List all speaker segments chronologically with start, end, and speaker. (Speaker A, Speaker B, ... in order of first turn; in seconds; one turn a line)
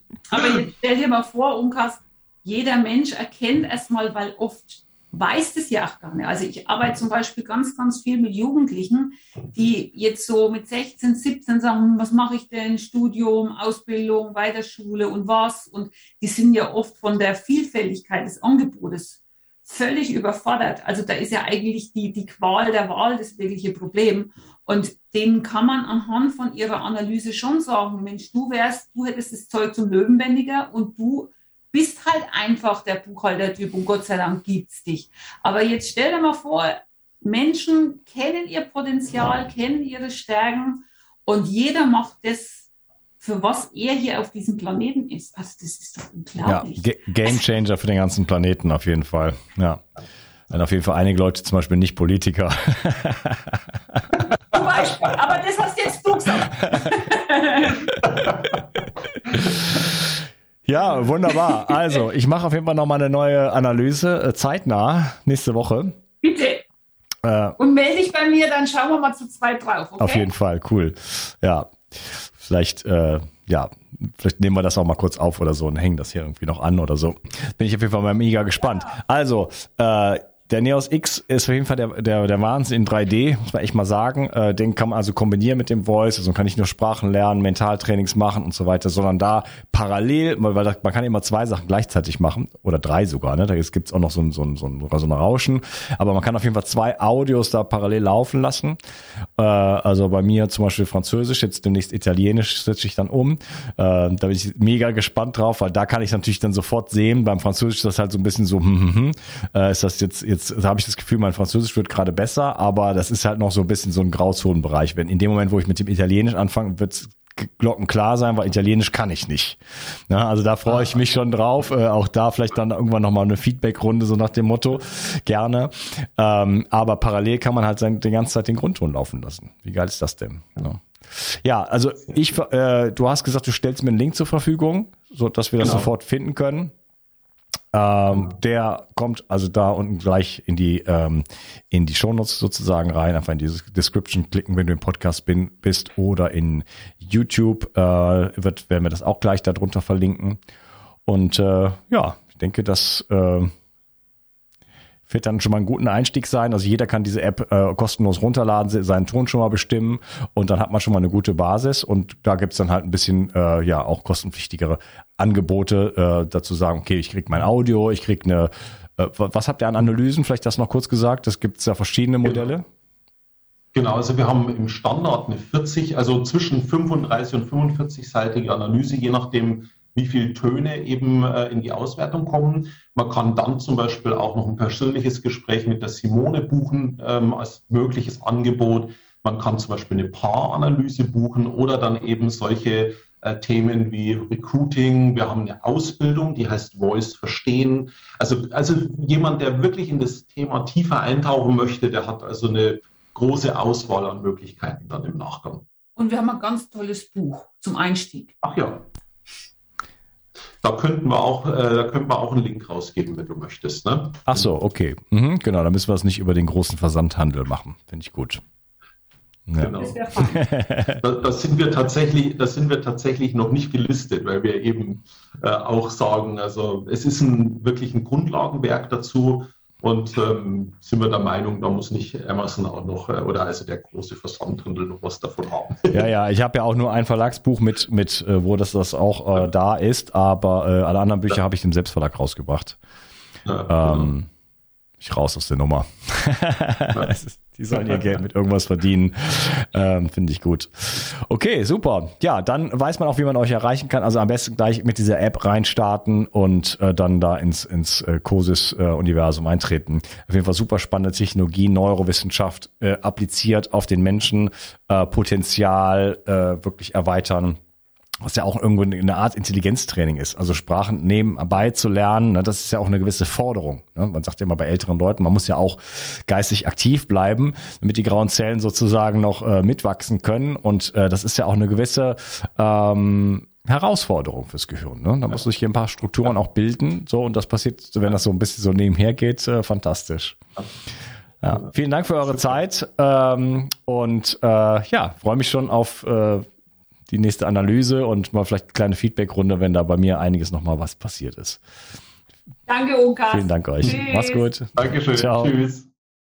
Speaker A: 0.3-42.6
Speaker B: 0.3-0.6
Speaker A: 43.2-47.4
Speaker C: 46.4-49.8
Speaker C: 50.5-54.0
Speaker A: 54.5-57.9
Speaker C: 60.6-66.0
Speaker A: 66.2-66.6
Speaker C: 67.2-67.6
Speaker A: 67.6-70.3
Speaker C: 70.0-98.8
Speaker C: 99.4-136.7
Speaker B: 120.7-121.0
Speaker B: 135.6-135.9
Speaker C: 137.7-150.4
Speaker C: 151.1-153.5
Speaker C: 155.1-172.7
Speaker B: 172.2-172.5
Speaker B: 173.7-205.6
Speaker A: 206.0-208.3
Speaker B: 208.4-208.8
Speaker B: 210.6-214.5
Speaker C: 214.3-218.4
Speaker C: 219.5-221.0
Speaker B: 219.6-220.1
Speaker A: 219.8-220.4
Speaker B: 221.0-236.0
Speaker C: 235.9-242.8
Speaker B: 243.4-244.1
Speaker C: 243.7-244.3
Speaker C: 245.0-267.6
Speaker B: 247.7-248.1
Speaker C: 268.2-290.4
Speaker C: 291.4-296.5
Speaker C: 297.1-301.6
Speaker A: 302.7-304.4
Speaker C: 303.3-305.5
Speaker B: 304.8-305.9